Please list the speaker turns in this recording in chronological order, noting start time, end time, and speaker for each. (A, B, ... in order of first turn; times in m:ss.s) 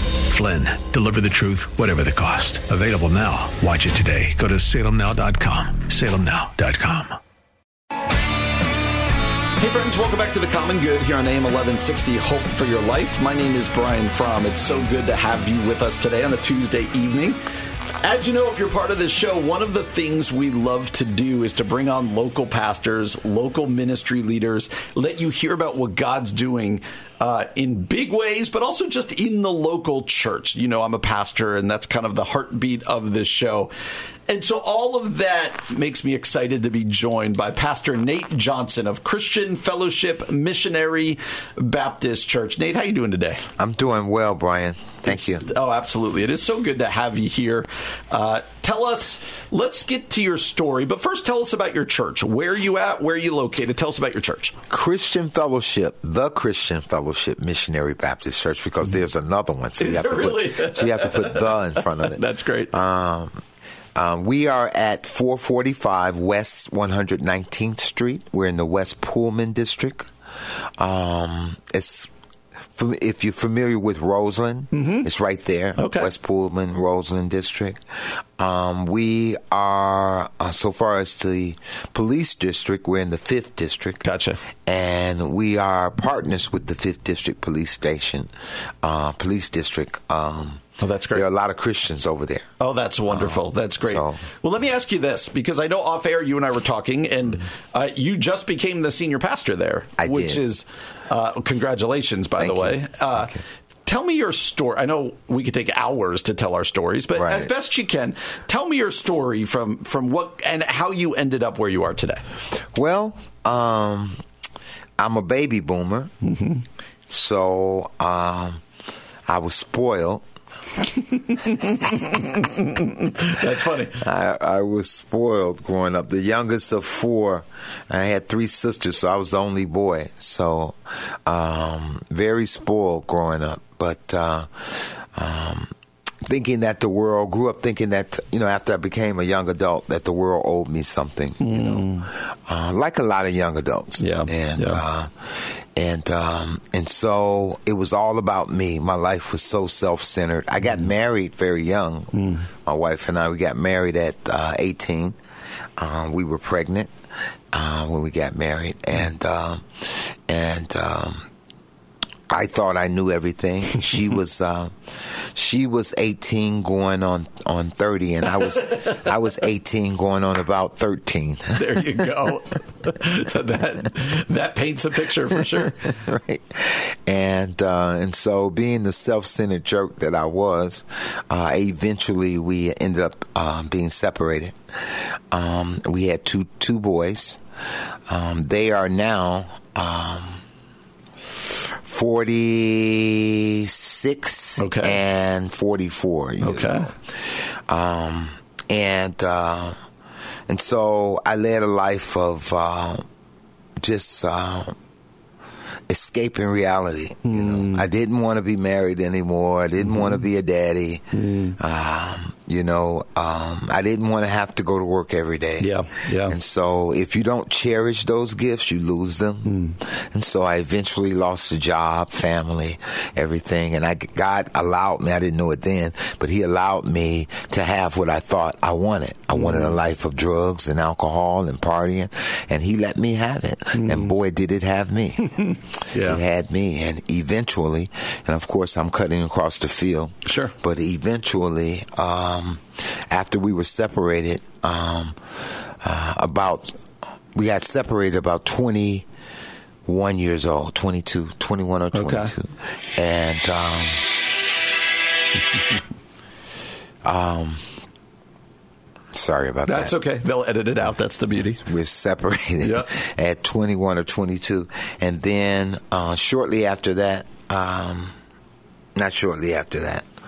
0:00.3-0:07.2 A
0:09.6-0:17.4 B
0:18.0-0:33.7 B
0:34.3-0:43.4 B
0:43.6-0:45.4 C
0:45.0-0:54.6 B
0:54.7-1:03.4 C
0:59.8-1:02.7 B
1:04.0-1:10.1 C
1:10.8-1:12.1 C
1:12.8-1:17.8 C
1:14.7-1:15.1 B
1:15.8-1:16.1 B
1:18.4-1:24.0 C
1:24.0-1:24.4 B
1:24.6-1:28.3 C
1:28.8-1:32.5 C
1:30.8-1:31.3 B
1:32.6-1:43.3 B
1:33.1-1:34.2 C
1:40.0-1:40.4 C
1:42.4-1:43.4 C
1:43.9-1:52.2 B
1:47.2-1:47.5 C
1:52.7-1:54.2 C
1:55.0-1:56.1 C
1:56.2-1:56.6 B
1:57.1-1:58.6 C
1:59.3-2:00.2 C
2:01.3-2:04.0 B
2:01.6-2:02.3 C
2:04.0-2:15.7 C
2:16.2-2:35.2 C
2:21.4-2:22.1 B
2:24.0-2:24.8 B
2:32.1-2:32.5 B
2:35.8-2:36.9 C
2:37.5-2:41.3 C
2:42.3-2:52.1 C
2:51.5-2:55.9 B
2:55.3-3:07.4 C
3:08.1-3:10.4 C
3:11.4-3:19.8 C
3:14.6-3:15.0 B
3:16.4-3:16.9 B
3:20.5-3:23.0 C
3:23.8-3:24.8 C
3:25.9-3:55.4 C
3:27.2-3:27.9 B
3:29.8-3:30.2 B
3:31.1-3:31.6 B
3:35.6-3:36.4 B
3:39.4-3:39.8 B
3:49.3-3:49.8 B
3:53.7-3:54.1 B
3:55.3-3:56.2 B
3:56.0-4:06.8 C
4:00.2-4:00.5 B
4:07.3-4:09.1 C
4:09.9-4:14.2 C
4:11.9-4:12.3 B
4:17.0-4:17.7 C
4:19.1-4:20.0 C
4:19.7-4:21.6 B
4:21.6-4:28.2 C
4:22.6-4:22.9 B
4:29.0-4:30.1 C